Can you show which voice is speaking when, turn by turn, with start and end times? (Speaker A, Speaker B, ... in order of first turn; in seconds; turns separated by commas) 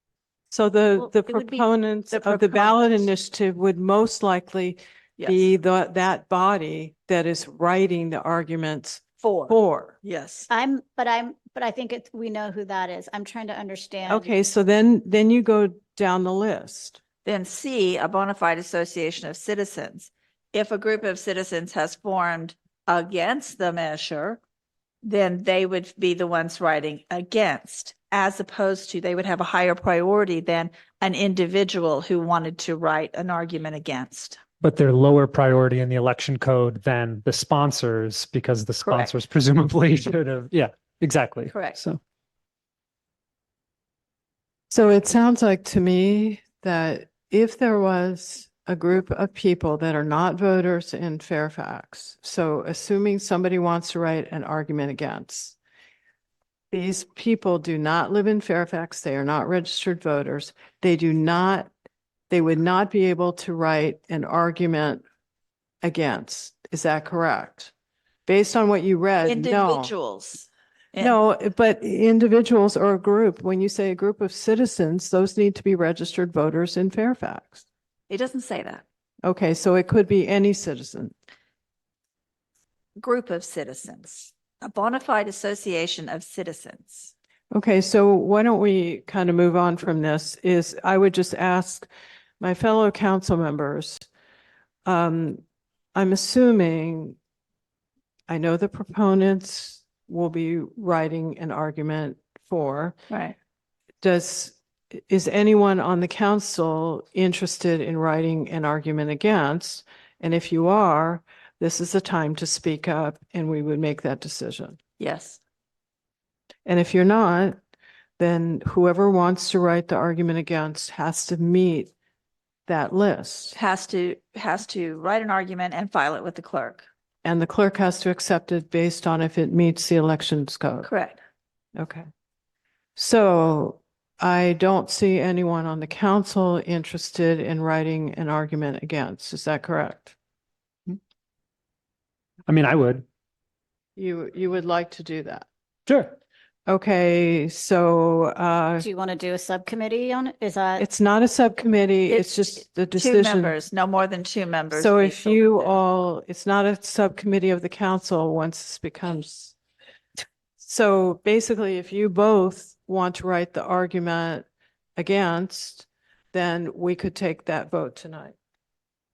Speaker A: 0.5-10.0, Speaker B: 1.0-1.7, Speaker C: 5.2-5.5, Speaker C: 9.2-10.5, Speaker B: 10.5-14.3, Speaker A: 14.1-17.0, Speaker C: 17.2-24.4, Speaker C: 25.0-34.4, Speaker D: 34.6-42.0, Speaker C: 38.8-39.1, Speaker C: 41.5-41.8, Speaker A: 44.7-55.6, Speaker A: 56.7-61.7, Speaker A: 62.3-65.0, Speaker A: 65.8-67.7, Speaker A: 68.3-69.9, Speaker C: 69.3-71.2, Speaker A: 71.0-77.7, Speaker C: 78.1-78.8, Speaker A: 79.2-81.2, Speaker C: 83.0-87.1, Speaker A: 87.5-91.9, Speaker A: 92.4-94.1, Speaker A: 94.8-95.4, Speaker A: 96.0-97.2, Speaker A: 98.3-103.0, Speaker C: 103.1-103.4, Speaker A: 104.0-114.8, Speaker C: 115.0-115.4, Speaker A: 116.7-117.6, Speaker A: 118.2-121.9, Speaker A: 122.7-123.6, Speaker C: 123.5-126.9, Speaker A: 127.2-130.9, Speaker C: 130.8-131.2, Speaker A: 131.8-132.1, Speaker A: 133.0-140.2, Speaker D: 142.5-143.1, Speaker A: 144.0-145.5, Speaker D: 145.9-146.2, Speaker A: 146.7-148.9, Speaker B: 148.8-150.8, Speaker A: 150.8-153.6, Speaker C: 152.1-155.8, Speaker A: 154.7-159.6, Speaker A: 160.6-168.3